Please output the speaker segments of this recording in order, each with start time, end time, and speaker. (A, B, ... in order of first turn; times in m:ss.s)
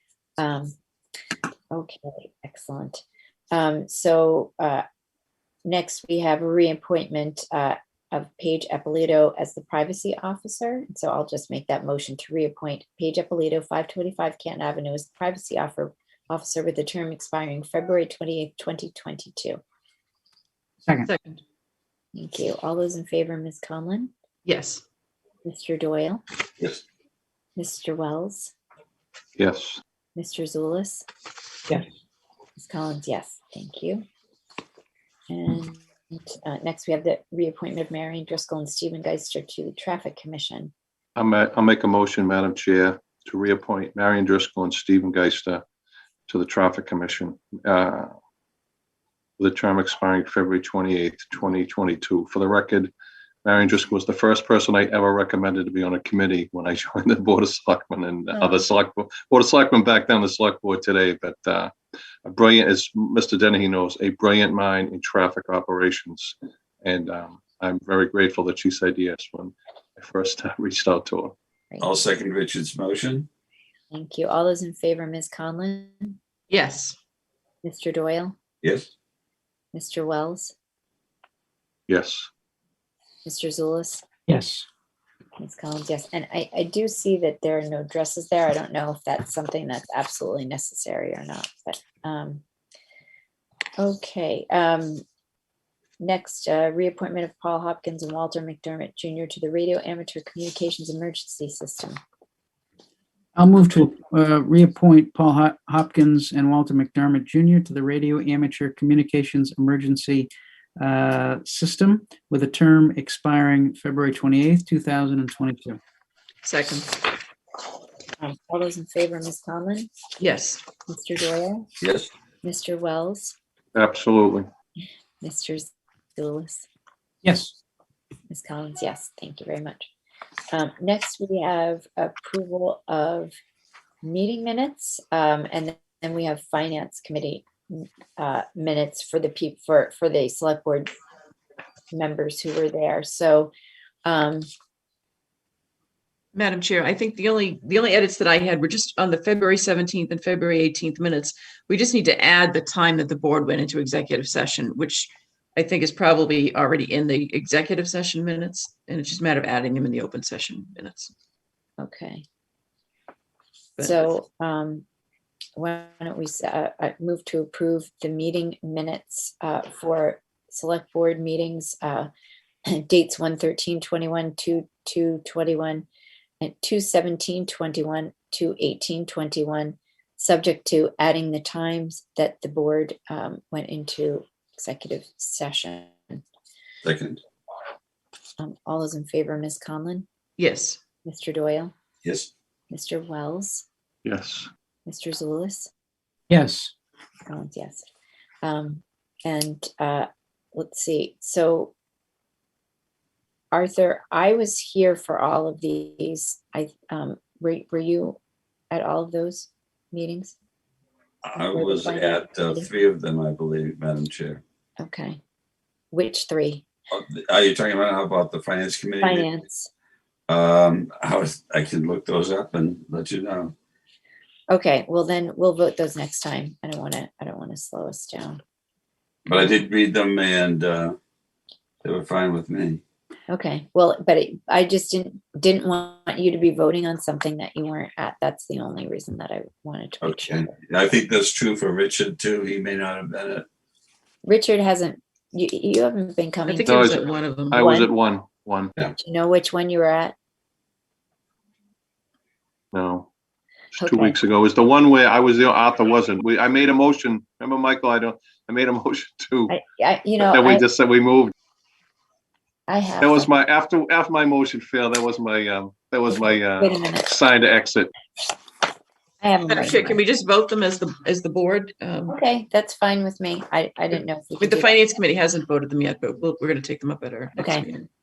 0:00.4-0:00.7 A
0:01.7-0:04.8 A
0:05.6-0:19.6 A
0:21.0-0:21.4 B
0:22.1-0:24.1 A
0:24.4-0:24.8 B
0:25.4-0:26.2 A
0:27.6-0:28.5 A
0:29.4-0:29.8 C
0:30.2-0:31.0 A
0:32.6-0:34.0 A
0:35.3-0:40.7 A
0:41.2-0:45.6 C
0:46.3-0:48.1 C
0:49.4-0:52.9 C
0:53.4-1:01.7 C
1:02.2-1:11.3 C
1:11.8-1:13.3 D
1:13.9-1:16.2 A
1:16.5-1:17.0 B
1:17.6-1:18.4 A
1:18.6-1:18.9 D
1:19.7-1:20.5 A
1:21.9-1:22.3 C
1:23.2-1:24.0 A
1:24.3-1:24.6 E
1:25.4-1:32.4 A
1:33.8-1:35.0 A
1:36.0-1:42.0 A
1:43.4-1:55.8 E
1:56.4-1:57.0 B
1:58.2-1:59.9 A
2:00.2-2:00.6 B
2:00.9-2:01.6 A
2:01.8-2:02.1 D
2:02.4-2:03.4 A
2:03.7-2:04.5 C
2:05.2-2:06.7 A
2:07.2-2:07.5 E
2:08.3-2:09.8 A
2:10.5-2:13.3 A
2:14.0-2:20.9 A
2:21.9-2:23.5 A
2:24.0-2:24.5 A
2:26.3-2:41.1 B
2:41.8-2:42.2 A
2:43.8-2:44.1 B
2:43.8-2:44.8 A
2:45.6-2:52.1 A
2:52.7-2:55.8 A
2:56.4-3:06.2 A
3:06.8-3:07.2 D
3:08.4-3:10.1 A
3:10.4-3:10.8 B
3:11.0-3:11.7 A
3:12.0-3:12.3 D
3:12.7-3:13.6 A
3:14.0-3:14.5 C
3:14.8-3:15.7 A
3:16.3-3:16.7 E
3:17.3-3:17.8 A
3:18.4-3:21.7 A
3:23.5-3:28.2 A
3:28.7-3:30.4 A
3:31.2-3:34.4 D
3:31.3-3:32.7 A
3:34.8-3:35.2 A
3:35.9-3:36.6 A
3:36.9-3:39.3 D
3:39.0-3:39.7 A
3:40.3-3:43.5 D
3:44.5-3:48.4 A
3:49.2-3:51.0 D
3:51.8-3:52.8 D
3:53.3-4:00.5 A
4:00.0-4:03.4 D
4:04.2-4:06.8 A
4:06.5-4:07.6 B
4:06.6-4:08.7 C
4:07.6-4:07.9 A
4:08.9-4:10.1 A
4:12.7-4:13.1 C
4:13.8-4:19.5 C
4:13.8-4:14.2 A
4:19.5-4:20.6 A
4:20.3-4:21.3 C
4:22.7-4:23.3 A
4:23.0-4:27.9 C
4:26.1-4:27.1 A
4:29.2-4:30.0 A
4:29.5-4:32.2 B
4:32.1-4:34.8 A
4:34.4-4:37.9 B
4:37.4-4:37.6 A